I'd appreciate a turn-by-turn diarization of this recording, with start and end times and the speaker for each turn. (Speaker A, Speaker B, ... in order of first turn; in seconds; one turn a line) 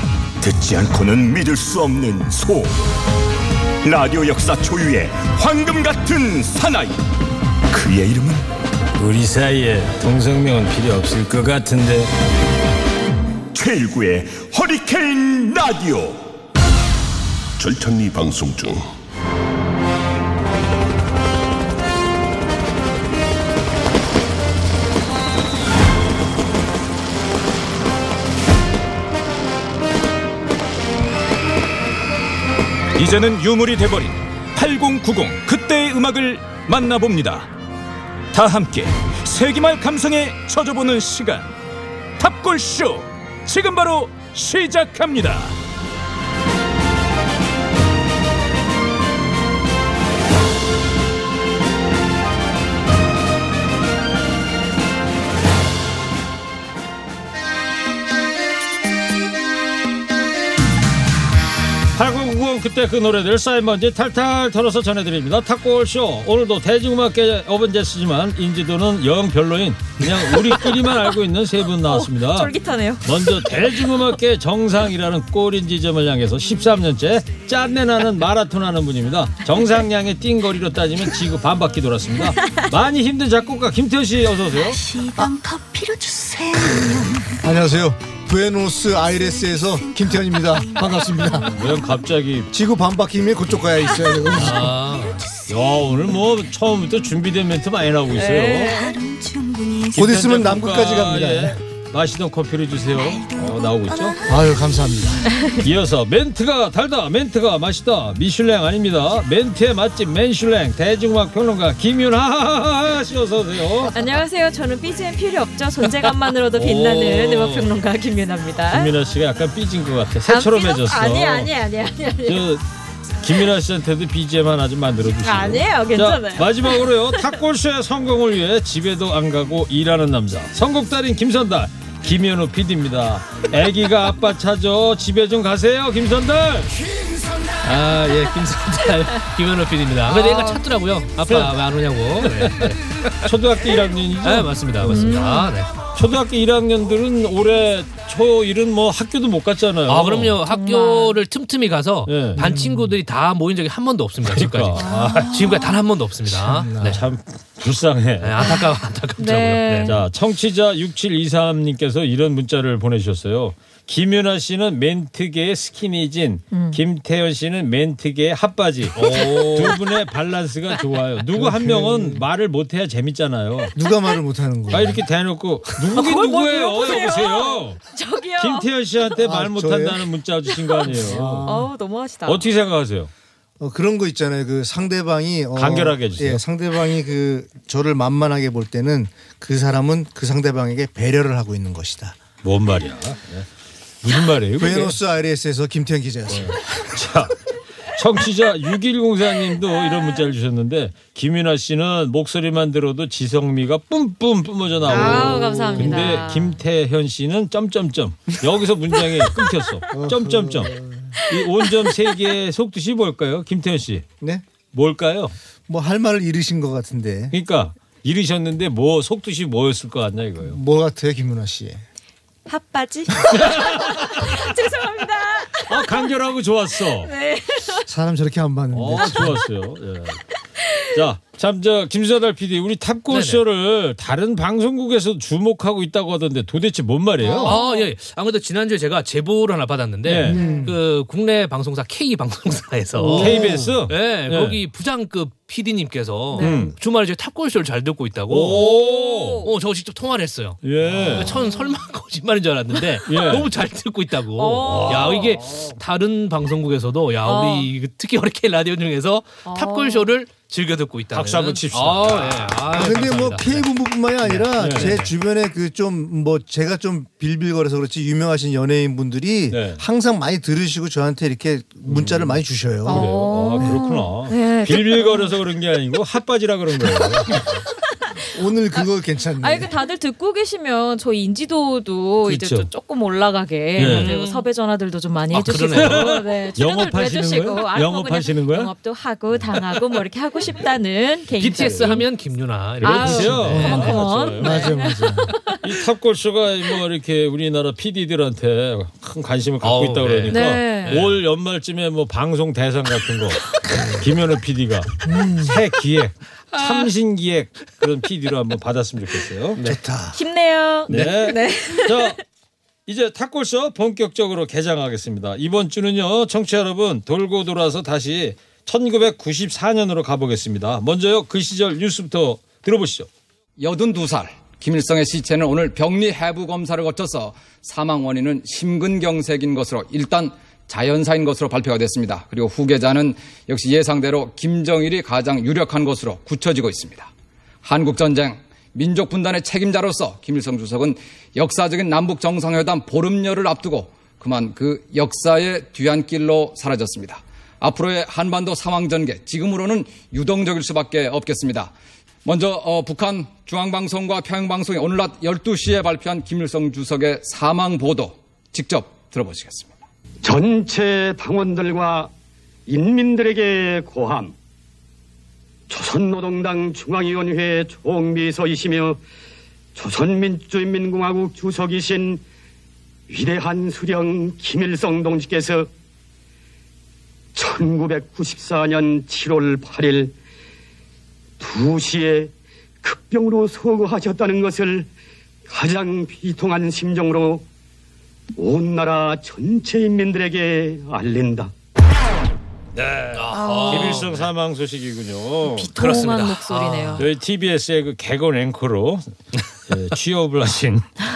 Speaker A: 0.4-2.8
Speaker A: 3.8-7.0
Speaker A: 7.7-8.4
Speaker B: 8.9-12.1
Speaker A: 13.5-16.2
Speaker A: 17.6-18.8
Speaker C: 32.9-37.5
Speaker C: 38.3-41.5
Speaker C: 42.2-45.6
Speaker B: 61.9-72.5
Speaker D: 71.8-73.8
Speaker B: 73.0-84.8
Speaker D: 82.4-82.7
Speaker E: 84.5-87.4
Speaker F: 87.4-91.5
Speaker E: 89.2-91.9
Speaker B: 91.5-92.5
Speaker F: 92.5-94.7
Speaker E: 93.8-96.4
Speaker B: 94.4-94.7
Speaker G: 94.4-95.2
Speaker B: 95.5-98.8
Speaker D: 98.1-99.0
Speaker E: 98.6-100.1
Speaker B: 99.9-104.2
Speaker F: 99.9-101.6
Speaker E: 102.9-104.9
Speaker F: 104.2-105.3
Speaker D: 105.3-105.6
Speaker B: 105.6-114.0
Speaker D: 113.9-118.9
Speaker B: 116.5-117.6
Speaker B: 118.7-121.5
Speaker D: 120.3-122.5
Speaker B: 122.2-122.6
Speaker B: 123.2-136.7
Speaker D: 125.2-127.2
Speaker G: 137.6-142.8
Speaker D: 140.1-140.7
Speaker B: 141.3-141.5
Speaker B: 142.2-145.2
Speaker G: 144.2-145.7
Speaker D: 144.9-145.5
Speaker B: 145.9-150.4
Speaker G: 149.9-157.0
Speaker D: 150.4-151.2
Speaker B: 152.1-152.4
Speaker F: 152.3-152.9
Speaker B: 154.2-155.6
Speaker D: 154.8-155.7
Speaker F: 156.5-157.0
Speaker B: 156.8-158.6
Speaker G: 158.2-159.9
Speaker D: 158.4-160.0
Speaker B: 159.8-173.7
Speaker D: 166.5-166.8
Speaker G: 168.9-169.8
Speaker F: 171.3-172.2
Speaker F: 173.8-175.0
Speaker B: 174.7-177.8
Speaker D: 175.9-178.7
Speaker B: 178.4-181.5
Speaker F: 179.2-180.1
Speaker F: 180.8-181.7
Speaker D: 181.4-182.4
Speaker B: 182.2-183.1
Speaker F: 183.6-192.2
Speaker B: 185.6-186.4
Speaker B: 192.4-193.5
Speaker B: 194.0-194.9
Speaker F: 194.6-196.9
Speaker B: 196.3-197.4
Speaker B: 197.9-210.7
Speaker D: 199.8-200.2
Speaker D: 204.8-206.6
Speaker F: 204.9-206.0
Speaker F: 209.9-211.1
Speaker B: 211.3-214.0
Speaker B: 214.7-215.3
Speaker F: 215.7-217.3
Speaker B: 217.3-220.6
Speaker F: 220.4-221.8
Speaker D: 222.5-226.1
Speaker B: 223.3-224.4
Speaker B: 225.6-227.1
Speaker D: 226.9-227.8
Speaker F: 227.8-229.4
Speaker B: 228.7-230.2
Speaker D: 230.6-230.8
Speaker B: 230.9-237.6
Speaker G: 233.1-233.4
Speaker D: 237.2-237.9
Speaker G: 237.4-248.7
Speaker B: 240.0-240.4
Speaker F: 240.3-240.8
Speaker D: 240.3-240.6
Speaker F: 242.9-243.7
Speaker B: 243.2-244.6
Speaker D: 246.3-246.7
Speaker B: 246.4-246.7
Speaker B: 248.3-249.4
Speaker D: 248.6-249.5
Speaker G: 249.4-263.7
Speaker B: 250.6-251.3
Speaker D: 251.1-251.7
Speaker B: 253.1-253.5
Speaker D: 254.4-255.4
Speaker B: 254.6-255.3
Speaker D: 257.2-257.7
Speaker D: 259.4-260.1
Speaker B: 261.1-262.6
Speaker F: 262.7-273.8
Speaker G: 264.2-265.1
Speaker B: 264.6-264.9
Speaker B: 269.5-269.8
Speaker B: 271.8-277.6
Speaker D: 272.9-275.4
Speaker D: 278.1-278.8
Speaker F: 278.3-279.7
Speaker D: 279.4-292.1
Speaker B: 282.2-282.7
Speaker B: 283.8-284.1
Speaker G: 283.8-284.5
Speaker G: 285.3-286.1
Speaker B: 285.7-288.7
Speaker G: 291.4-294.0
Speaker B: 291.6-291.9
Speaker D: 292.8-295.8
Speaker B: 292.8-294.8
Speaker F: 293.5-295.3
Speaker B: 295.6-303.4
Speaker G: 299.6-301.2
Speaker D: 300.3-301.0
Speaker B: 304.0-309.6
Speaker F: 305.0-305.6
Speaker F: 309.6-310.2
Speaker D: 310.1-312.2
Speaker B: 310.9-312.2
Speaker B: 312.9-323.1
Speaker H: 323.6-337.1
Speaker H: 337.6-351.7
Speaker H: 352.2-359.7
Speaker I: 360.2-362.1
Speaker I: 362.7-364.3
Speaker I: 365.7-369.0
Speaker I: 369.7-372.2
Speaker I: 373.1-375.7
Speaker I: 377.3-380.1
Speaker I: 381.4-384.9
Speaker I: 385.5-387.4
Speaker I: 388.4-391.5
Speaker B: 392.7-396.0
Speaker G: 393.1-394.2
Speaker D: 393.3-394.1
Speaker D: 395.4-397.0
Speaker G: 395.8-397.1
Speaker B: 397.0-399.0
Speaker B: 399.7-400.9